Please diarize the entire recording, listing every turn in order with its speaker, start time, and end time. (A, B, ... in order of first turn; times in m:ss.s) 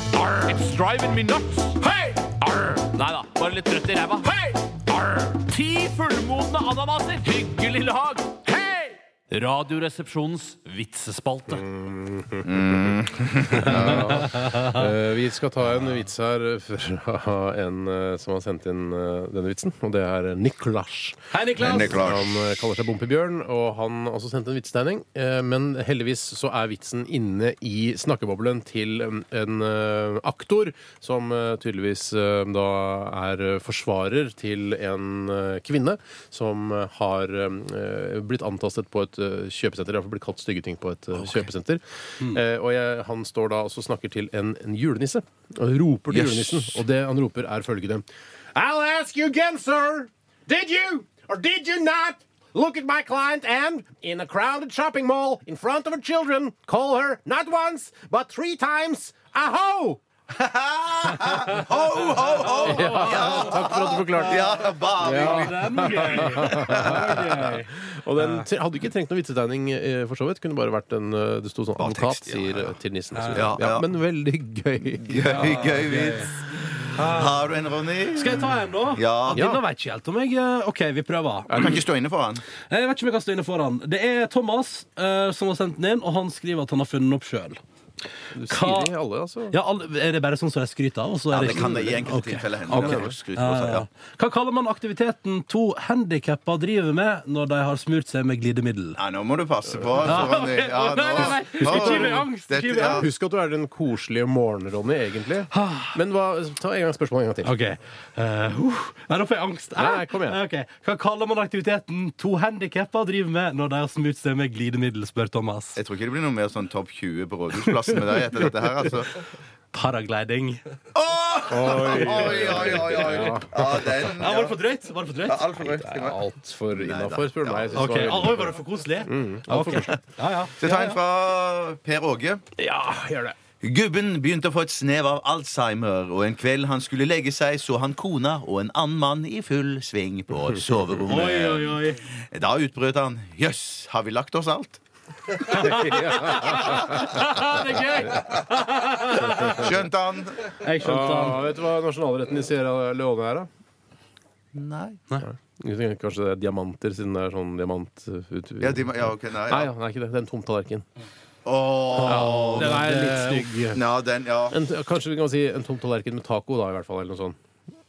0:00.4-0:11.7 A
0:11.6-0:12.5 B
0:12.4-0:14.4 C
0:13.5-1:00.0 B
0:14.4-0:14.8 D
0:21.3-0:22.0 D
0:21.6-0:22.4 C
0:41.2-0:41.4 C
0:46.1-0:46.8 C
1:00.3-1:07.4 C
1:02.4-1:03.4 D
1:02.6-1:15.8 B
1:04.8-1:07.6 D
1:08.2-1:08.4 D
1:11.8-1:12.8 C
1:13.2-1:13.5 D
1:13.3-1:13.9 C
1:15.0-1:19.5 C
1:15.3-1:16.3 D
1:16.9-1:17.3 D
1:18.1-1:21.8 D
1:19.3-1:19.6 B
1:21.5-1:21.8 B
1:21.6-1:22.4 C
1:22.7-1:27.6 D
1:28.3-1:29.6 B
1:28.5-1:28.9 D
1:29.5-1:39.0 D
1:31.3-1:33.9 C
1:32.7-1:33.1 B
1:39.0-1:43.1 C
1:40.0-1:43.1 D
1:41.6-1:42.2 B
1:42.9-1:47.5 B
1:45.5-1:46.0 D
1:47.4-1:55.8 D
1:49.8-1:50.4 B
1:55.8-1:59.1 C
1:59.7-2:00.6 D
2:00.9-2:04.6 C
2:01.5-2:03.6 B
2:02.1-2:03.0 D
2:04.0-2:05.6 D
2:05.2-2:08.4 C
2:05.7-2:10.0 B
2:07.7-2:10.6 D
2:10.6-2:12.4 C
2:12.6-2:13.4 B
2:13.6-2:24.8 C
2:21.1-2:22.0 D
2:25.4-2:29.7 D
2:25.6-2:27.0 B
2:29.2-2:29.6 B
2:29.5-2:30.4 C
2:30.6-2:31.4 D
2:30.8-2:33.5 B
2:34.5-2:35.0 C
2:35.2-2:40.8 B
2:38.6-2:39.7 C
2:41.4-2:43.0 C
2:42.0-2:43.8 B
2:42.1-2:43.5 D
2:43.7-2:44.6 C
2:44.5-2:47.4 B